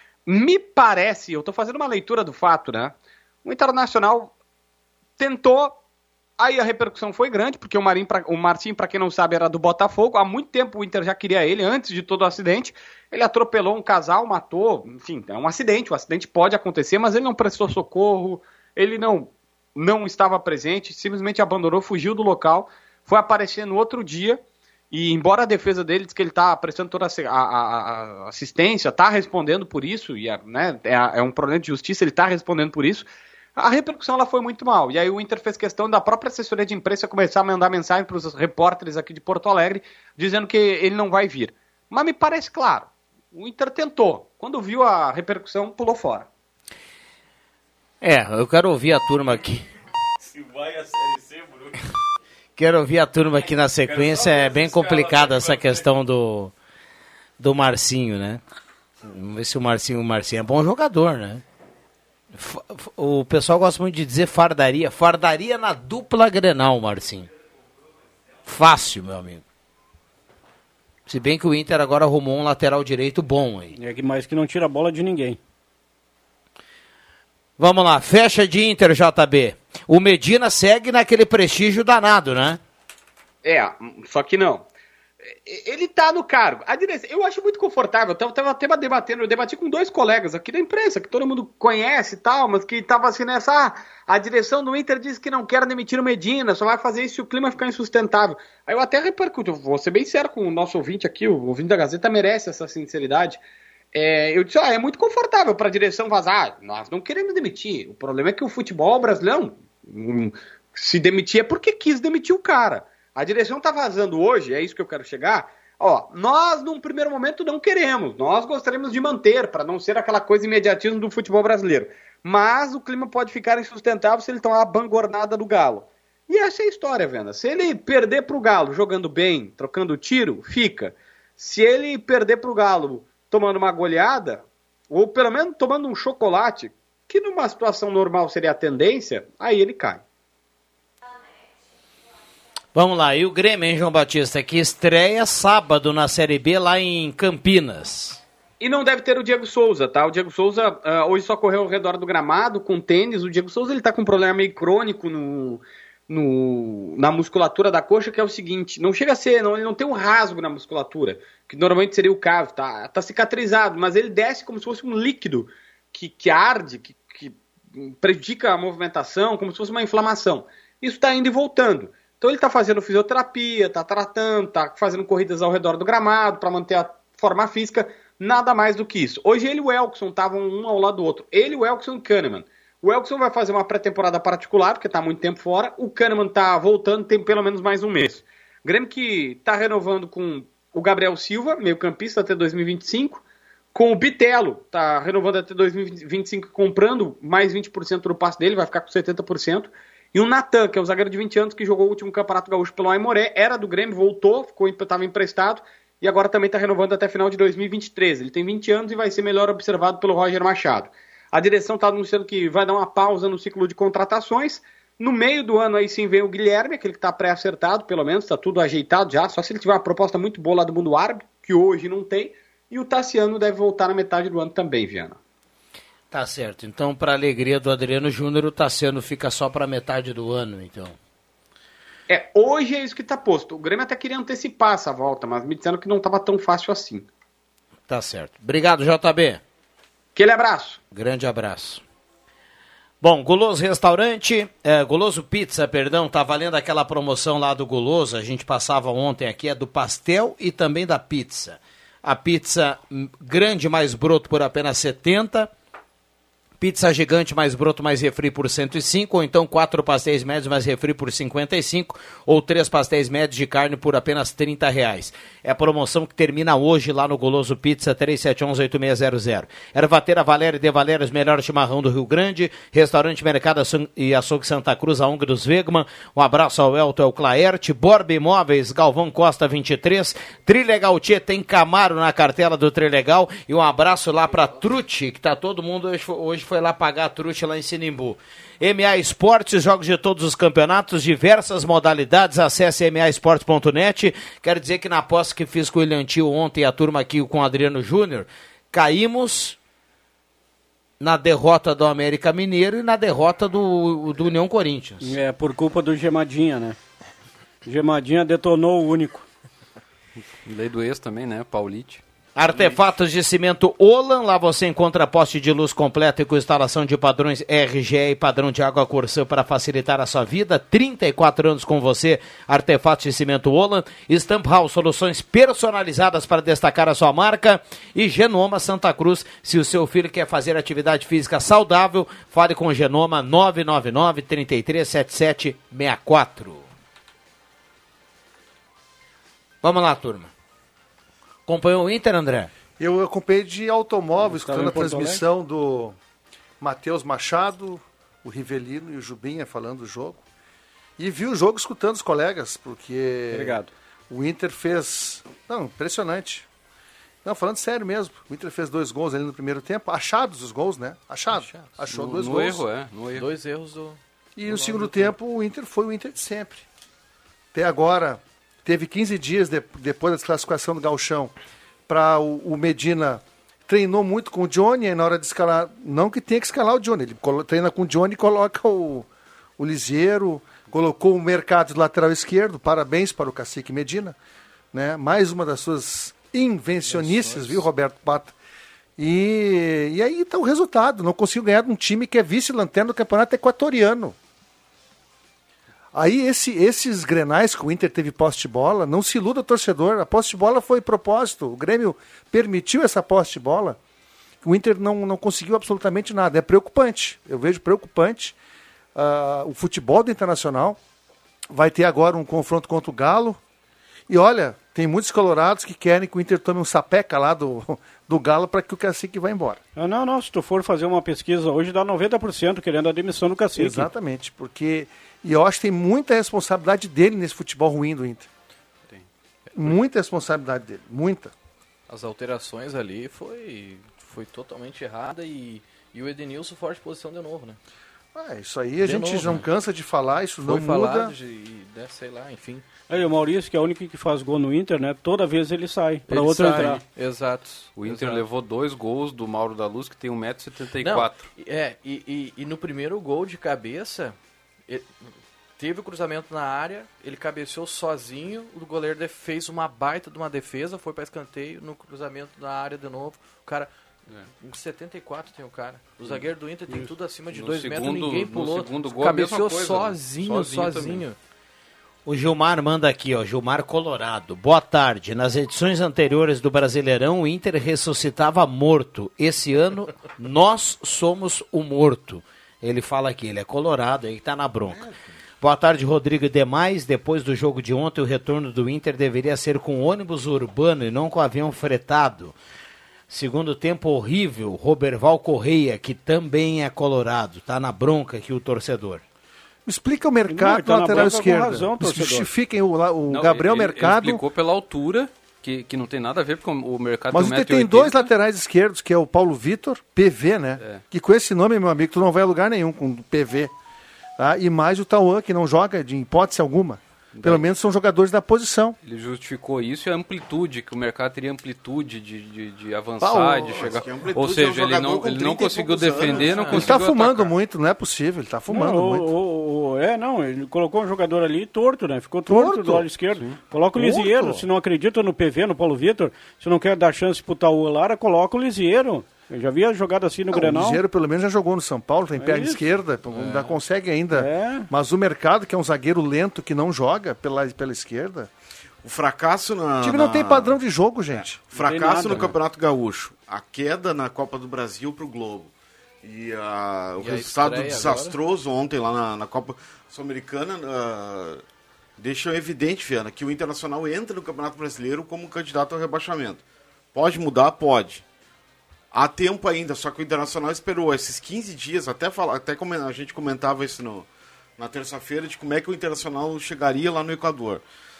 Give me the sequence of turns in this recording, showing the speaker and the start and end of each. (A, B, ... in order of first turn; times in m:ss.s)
0:00.2-0:04.3 A
0:05.2-0:05.8 A
0:06.4-0:46.3 A
0:48.0-0:49.6 B
0:50.4-0:51.7 C
0:52.6-0:56.5 B
0:57.4-0:58.4 B
0:59.0-1:01.4 B
1:02.3-1:07.3 B
1:08.4-1:09.4 B
1:11.1-1:13.7 B
1:13.8-1:15.4 D
1:17.6-1:22.6 B
1:23.4-1:24.6 A
1:25.3-1:43.4 A
1:43.9-2:20.0 A
2:22.7-2:28.2 B
2:28.6-3:13.2 A
3:13.7-3:45.2 A
3:46.1-3:50.9 B
3:52.1-3:57.0 A
3:57.9-3:59.4 B
4:00.1-4:00.8 A
4:00.9-4:01.8 B
4:03.0-4:15.5 B
4:16.6-4:59.6 B
5:01.0-5:05.1 B
5:05.0-5:06.8 D
5:07.6-5:09.2 D
5:10.4-5:12.0 E
5:12.3-5:36.6 B
5:39.6-5:40.3 B
5:41.4-5:42.5 B
5:42.8-5:46.0 F
5:44.2-5:45.2 D
5:46.6-5:50.2 F
5:51.0-5:56.5 F
5:53.3-5:53.7 D
5:57.2-6:02.6 F
6:01.3-6:01.7 G
6:01.9-6:03.3 E
6:03.1-6:05.1 G
6:04.4-6:06.6 F
6:07.5-6:11.3 F
6:11.9-6:19.1 F
6:19.6-6:24.2 F
6:24.7-6:28.3 F
6:27.2-6:27.4 G
6:29.0-6:34.2 F
6:35.9-6:43.8 F
6:44.4-6:48.4 F
6:48.9-6:50.8 F
6:51.5-6:53.4 F
6:54.1-6:59.6 F
6:59.8-7:03.9 D
7:03.5-7:08.3 F
7:09.5-7:11.3 F
7:11.9-7:17.6 G
7:18.1-7:21.1 F
7:18.8-7:19.5 G
7:20.4-7:22.7 G
7:22.9-7:26.8 D
7:26.1-7:28.2 G
7:27.8-7:31.3 E
7:30.8-7:34.2 G
7:34.7-7:51.2 G
7:46.0-7:51.0 E
7:52.0-8:04.9 B
8:04.7-8:05.0 C
8:05.4-8:12.3 B
8:13.1-8:19.0 B
8:19.6-8:24.2 F
8:20.3-8:22.3 D
8:23.1-8:28.1 E
8:27.1-8:33.5 F
8:34.2-8:38.8 F
8:37.1-8:37.5 E
8:38.8-8:47.3 E
8:43.0-8:43.8 F
8:43.4-8:46.6 C
8:46.0-8:46.6 G
8:46.5-8:49.1 F
8:48.5-9:00.8 D
8:52.3-8:52.9 F
8:53.7-8:54.4 F
9:00.3-9:08.3 F
9:02.2-9:02.6 D
9:03.2-9:03.5 G
9:04.1-9:04.7 D
9:08.8-9:10.6 C
9:09.8-9:11.4 F
9:11.5-9:15.5 C
9:11.5-9:12.3 D
9:16.0-9:21.4 C
9:17.0-9:18.2 G
9:22.0-9:26.4 C
9:26.9-9:28.0 C
9:28.9-9:37.6 C